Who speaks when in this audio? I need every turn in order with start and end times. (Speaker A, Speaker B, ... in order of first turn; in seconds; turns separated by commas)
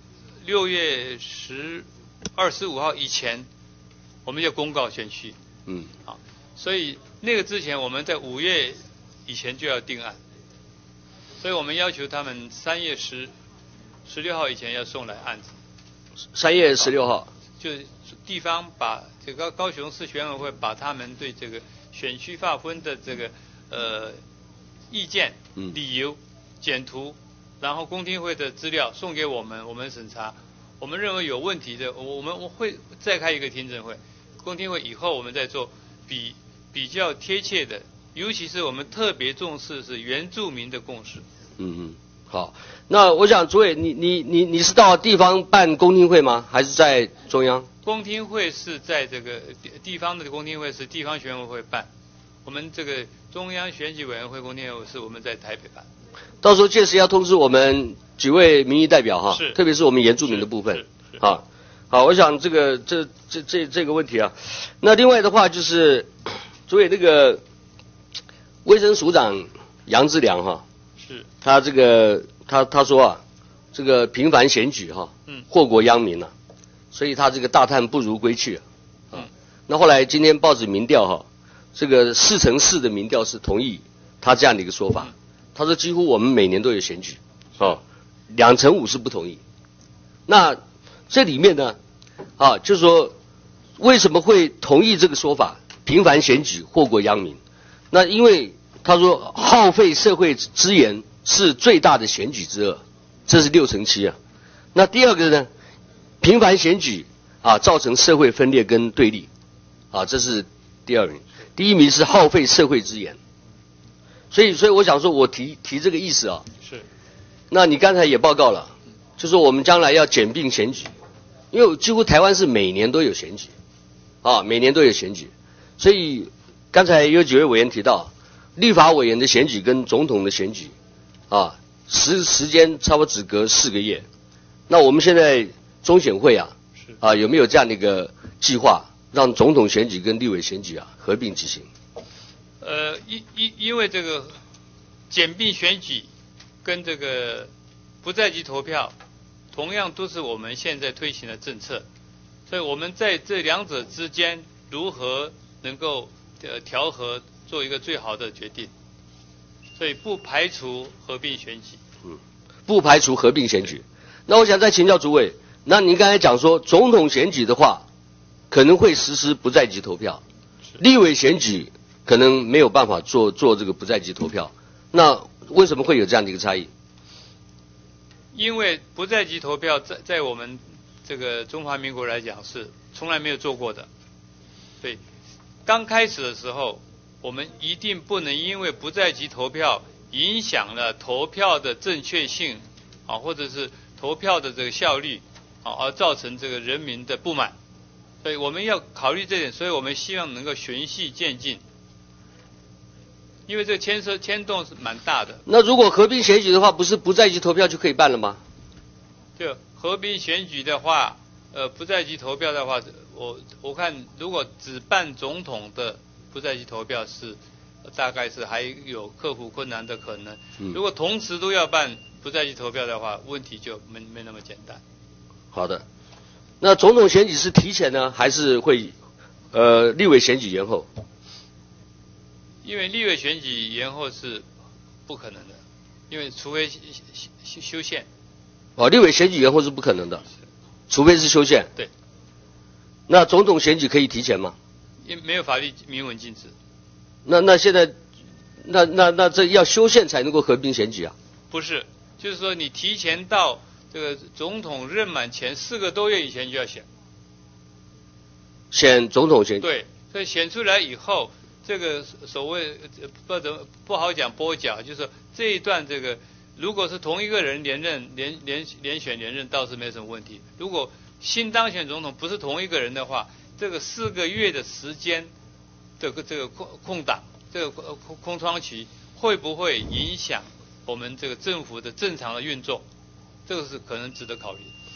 Speaker A: 0.4-3.5, Speaker A: 4.2-5.4, Speaker A: 6.0-10.2, Speaker A: 11.4-13.3, Speaker A: 14.1-15.6, Speaker B: 16.4-17.3, Speaker A: 17.6-24.2, Speaker A: 24.9-41.2, Speaker B: 41.6-47.7, Speaker A: 47.9-51.9, Speaker A: 52.5-55.9, Speaker B: 56.4-66.1, Speaker A: 59.3-59.6, Speaker A: 60.3-61.2, Speaker B: 66.7-67.4, Speaker B: 68.7-70.6, Speaker A: 71.0-71.3, Speaker B: 71.4-73.2, Speaker B: 73.7-76.3, Speaker B: 76.9-89.4, Speaker B: 90.3-90.6, Speaker B: 91.1-91.8, Speaker B: 92.4-93.1, Speaker B: 93.8-97.4, Speaker B: 97.9-104.2, Speaker B: 104.7-105.5, Speaker B: 106.2-109.3, Speaker B: 109.9-113.2, Speaker B: 114.3-116.5, Speaker B: 117.5-120.9, Speaker B: 121.5-123.5, Speaker B: 124.2-130.7, Speaker B: 131.3-134.0, Speaker B: 134.7-141.7, Speaker A: 142.6-144.4, Speaker A: 145.1-146.1, Speaker A: 146.6-147.5, Speaker A: 148.0-148.9, Speaker A: 149.5-151.8, Speaker A: 152.5-158.7, Speaker A: 159.8-161.8, Speaker B: 162.7-167.8, Speaker B: 168.5-170.2, Speaker B: 170.8-176.7, Speaker A: 178.3-183.9, Speaker A: 185.7-197.6, Speaker A: 198.2-201.6, Speaker A: 203.5-205.4, Speaker B: 205.5-208.4, Speaker A: 209.4-224.8, Speaker B: 225.5-225.8, Speaker B: 226.6-228.9, Speaker B: 229.5-230.9, Speaker A: 232.6-234.5, Speaker A: 235.1-238.1, Speaker B: 238.8-240.2, Speaker B: 240.9-241.7, Speaker B: 243.1-244.6, Speaker A: 245.1-246.5, Speaker B: 247.2-247.9, Speaker B: 248.6-251.1, Speaker A: 251.5-256.9, Speaker B: 258.7-259.7, Speaker A: 259.6-275.3, Speaker A: 276.0-282.8, Speaker A: 283.5-284.7